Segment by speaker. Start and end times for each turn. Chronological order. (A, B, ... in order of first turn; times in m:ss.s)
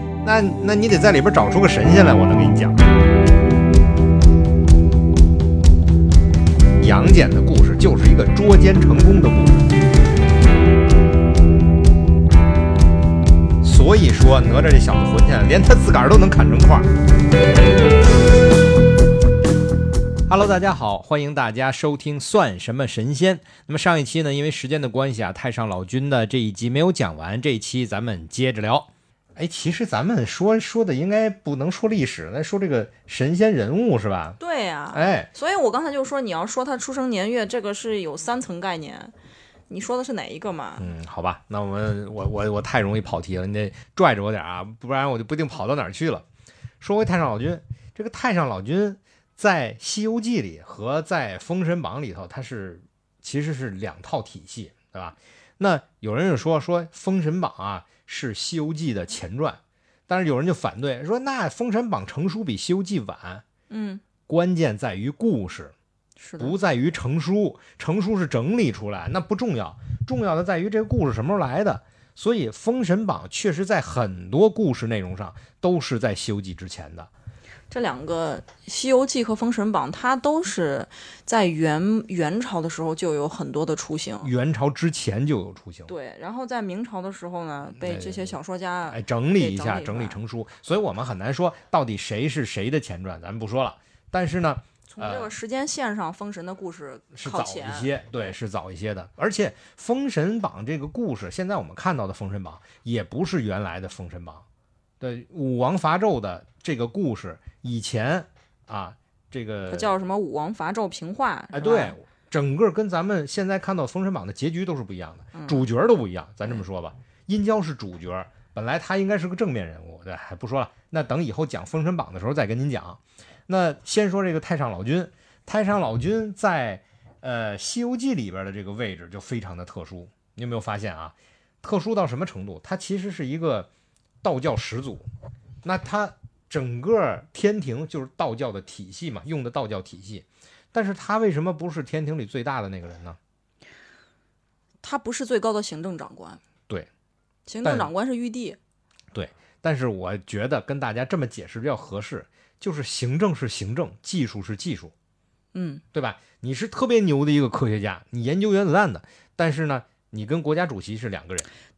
0:00.2-0:02.8 A
0:06.8-0:09.7 A
0:13.6-0:16.9 A
0:20.3-0:34.4 A
0:34.4-0:39.1 B
0:34.9-0:35.3 A
0:39.7-0:40.9 B
0:40.8-0:46.2 A
0:46.8-1:03.4 A
1:03.7-1:04.0 B
1:04.2-1:05.7 A
1:06.2-1:06.5 B
1:06.4-1:17.1 A
1:17.7-1:24.3 B
1:24.2-1:25.9 A
1:25.9-1:30.2 B
1:27.8-1:28.3 A
1:28.9-1:35.3 A
1:34.9-1:38.3 B
1:37.1-1:44.4 A
1:45.0-1:49.9 A
1:49.7-1:52.0 B
1:51.5-2:13.7 A
1:55.3-1:55.6 B
2:14.2-2:15.0 A
2:15.6-2:23.2 A
2:24.8-2:26.4 B
2:27.5-2:28.6 B
2:27.6-2:27.9 A
2:29.1-2:34.9 A
2:35.5-2:35.8 B
2:35.9-2:41.5 A